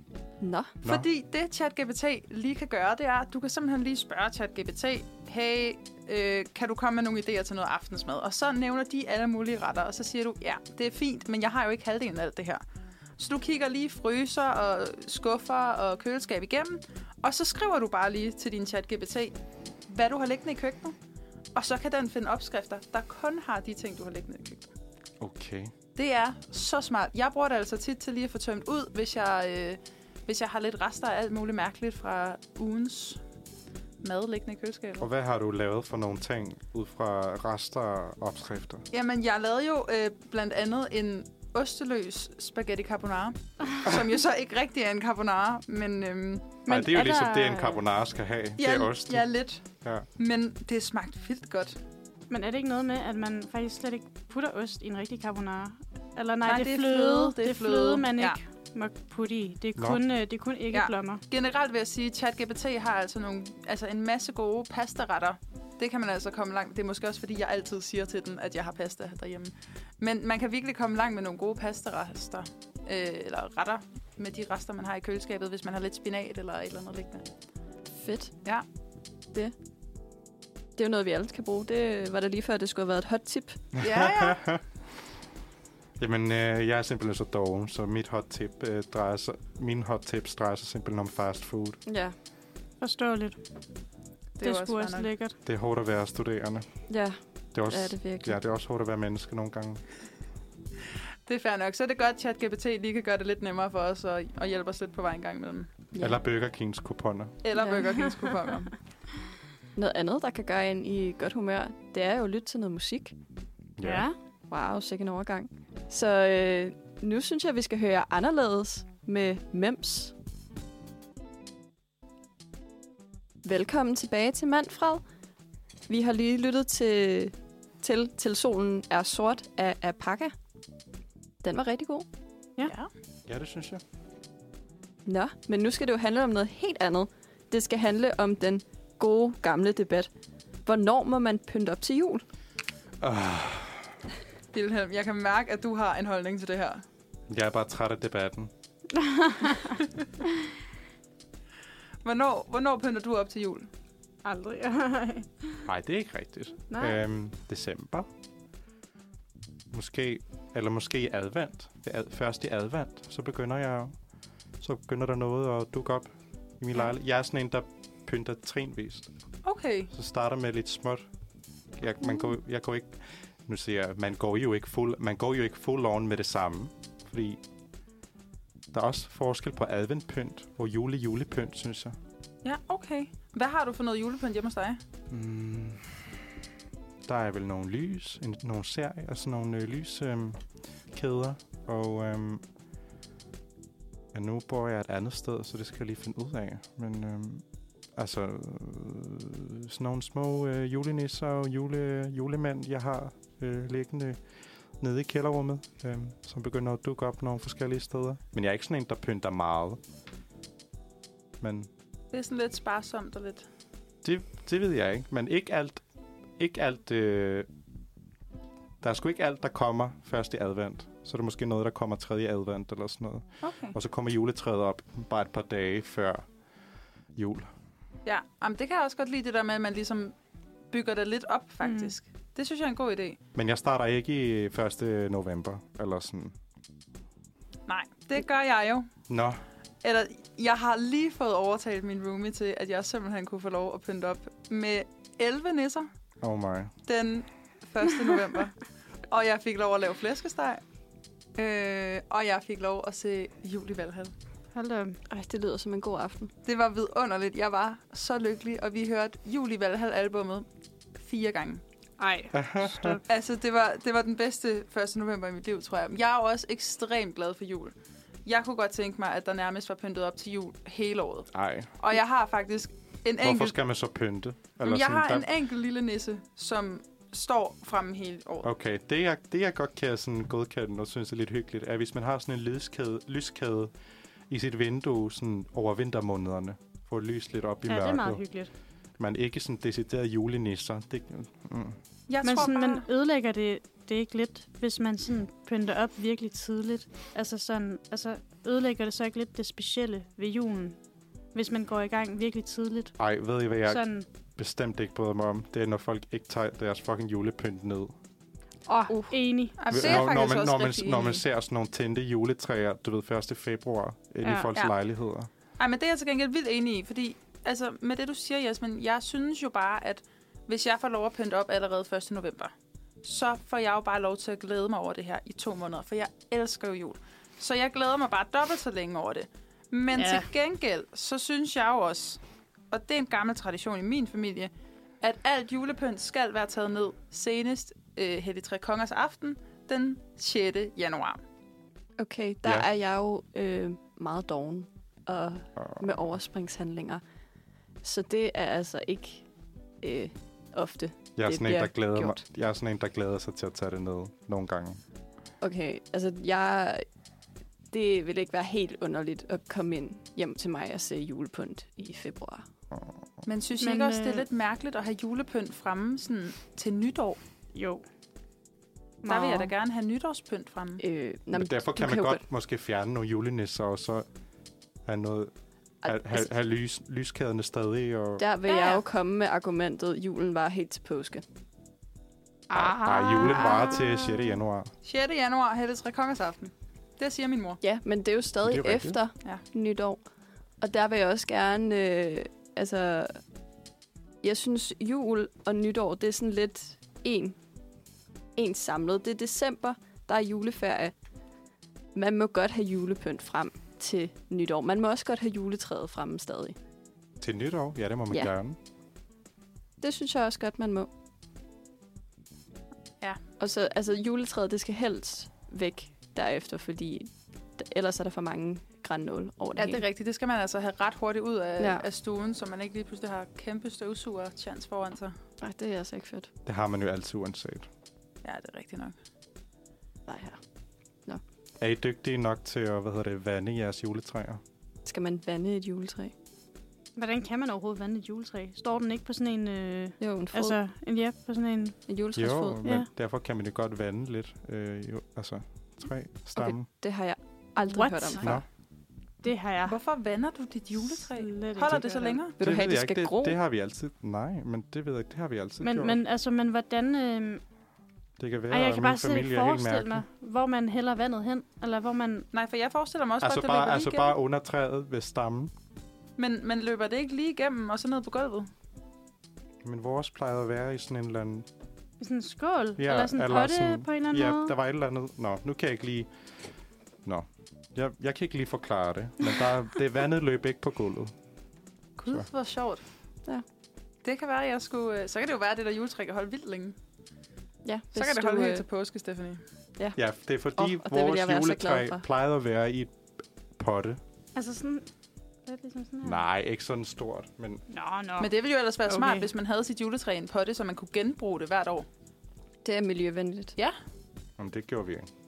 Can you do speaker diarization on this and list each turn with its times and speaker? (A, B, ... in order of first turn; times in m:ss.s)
0:00.4-0:00.8 A
0:00.8-0:12.6 B
0:13.2-0:19.3 B
0:19.9-0:20.9 B
0:21.5-0:24.7 B
0:25.2-0:25.7 C
0:26.0-0:33.2 B
0:34.0-0:35.1 B
0:35.0-0:38.8 C
0:38.9-0:46.6 B
0:46.6-0:47.8 D
0:46.7-0:49.2 C
0:48.6-0:51.8 B
0:52.3-1:01.2 D
0:56.4-0:58.4 B
1:00.7-1:17.2 B
1:17.9-1:18.3 A
1:20.8-1:23.6 A
1:23.8-1:24.6 C
1:23.8-1:24.4 B
1:26.0-1:31.8 C
1:31.8-1:32.1 A
1:32.8-1:33.4 D
1:34.4-1:35.1 B
1:34.4-1:35.4 D
1:35.4-1:36.6 C
1:36.9-1:38.4 A
1:37.5-1:39.8 C
1:41.3-1:45.7 B
1:45.9-1:46.2 A
1:46.0-1:47.4 C
1:47.4-1:48.7 B
1:47.5-1:47.9 A
1:49.8-1:53.2 A
1:53.8-1:54.1 C
1:53.8-1:54.1 D
1:54.5-2:00.1 A
2:03.4-2:05.0 A
2:05.9-2:10.3 A
2:11.4-2:12.0 A
2:12.6-2:12.9 B
2:13.3-2:13.8 C
2:15.0-2:20.1 A
2:20.6-2:22.2 A
2:23.0-2:23.9 C
2:24.5-2:26.8 B
2:27.3-2:28.5 C
2:29.0-2:29.8 D
2:32.0-2:33.7 B
2:34.2-2:35.6 D
2:35.6-2:38.1 C
2:36.7-2:37.0 D
2:39.7-2:43.9 C
2:44.6-2:49.1 C
2:49.4-2:49.9 B
2:49.9-2:51.0 C
2:51.8-2:57.4 C
2:58.7-3:02.0 C
3:02.4-3:04.8 B
3:05.1-3:06.0 C
3:07.0-3:12.4 C
3:14.1-3:17.4 C
3:18.0-3:24.2 C
3:24.8-3:29.8 C
3:31.4-3:31.7 C
3:32.1-3:33.4 B
3:34.0-3:35.8 C
3:36.4-3:37.5 C
3:38.8-3:46.2 C
3:43.4-3:43.7 B
3:47.1-3:47.5 C
3:48.0-3:50.1 B
3:50.7-3:53.2 B
3:51.6-3:51.9 D
3:53.3-3:56.3 C
3:57.7-3:58.9 B
3:59.1-3:59.4 C
3:59.8-4:05.9 B
4:06.2-4:06.7 C
4:06.9-4:08.5 B
4:09.1-4:10.6 B
4:11.4-4:14.1 B
4:14.5-4:15.0 D
4:15.1-4:16.3 A
4:16.4-4:21.6 B
4:22.0-4:23.0 D
4:22.3-4:23.0 C
4:23.1-4:27.7 B
4:28.2-4:33.5 B
4:31.3-4:31.7 C
4:33.2-4:35.3 C
4:34.6-4:38.5 B
4:38.4-4:43.7 C
4:44.3-4:48.2 C
4:47.7-4:48.5 D
4:49.0-4:51.8 C
4:52.1-4:52.8 B
4:52.2-5:00.8 D
5:01.3-5:03.0 D
5:03.0-5:08.0 C
5:03.6-5:04.1 D
5:08.7-5:09.6 D
5:08.9-5:09.1 A
5:09.6-5:11.2 B
5:09.7-5:15.3 C
5:14.2-5:14.5 D
5:15.6-5:32.2 B
5:29.9-5:30.3 D
5:32.7-5:41.2 B
5:42.0-5:47.0 A
5:42.4-5:42.7 C
5:47.8-5:49.2 A
5:49.8-5:52.2 A
5:51.2-5:54.8 C
5:55.4-5:56.8 A
5:57.7-6:02.5 A
6:03.2-6:07.2 B
6:03.6-6:04.3 D
6:07.5-6:07.8 D
6:09.0-6:09.5 D
6:09.0-6:10.8 B
6:10.8-6:12.2 A
6:11.3-6:14.0 C
6:14.8-6:15.3 C
6:15.8-6:16.3 A
6:15.8-6:18.2 C
6:18.2-6:21.2 A
6:18.4-6:18.8 B
6:22.5-6:24.7 C
6:22.6-6:23.8 A
6:23.2-6:23.5 D
6:24.8-6:27.6 B
6:27.6-6:30.0 A
6:28.4-6:29.0 C
6:30.6-6:33.2 A
6:34.2-6:37.4 A
6:38.4-6:40.9 A
6:41.9-6:46.6 A
6:47.2-6:48.6 C
6:49.8-6:50.9 A
6:53.4-6:59.8 A
6:59.6-7:05.1 B
7:01.6-7:01.8 A
7:05.4-7:06.3 A
7:06.4-7:07.7 C
7:08.2-7:09.0 B
7:10.1-7:10.4 A
7:11.6-7:14.4 C
7:14.8-7:16.1 A
7:17.0-7:21.8 D
7:20.0-7:20.6 A
7:21.9-7:22.6 A
7:22.1-7:26.7 C
7:26.4-7:28.4 A
7:27.7-7:28.4 D
7:28.2-7:28.4 C
7:29.2-7:29.8 D
7:29.6-7:32.3 B
7:30.8-7:32.2 D
7:32.4-7:33.4 A
7:32.4-7:36.0 C
7:35.6-7:37.4 D
7:38.2-7:40.0 C
7:38.5-7:42.3 D
7:42.3-7:44.2 B
7:43.2-7:45.5 C
7:46.2-7:48.5 B
7:49.6-7:51.5 C
7:52.0-7:54.5 D
7:52.8-7:56.1 C
7:57.0-8:01.1 C
8:02.0-8:02.8 B
8:04.0-8:06.8 B
8:07.6-8:08.6 A
8:07.9-8:09.4 B
8:10.0-8:12.9 C
8:10.6-8:12.0 A
8:13.6-8:14.0 C
8:14.3-8:14.8 D
8:15.4-8:16.2 D
8:16.0-8:17.6 C
8:17.7-8:18.3 D
8:18.2-8:21.9 B
8:18.9-8:19.3 D
8:22.6-8:23.5 A
8:24.4-8:25.1 C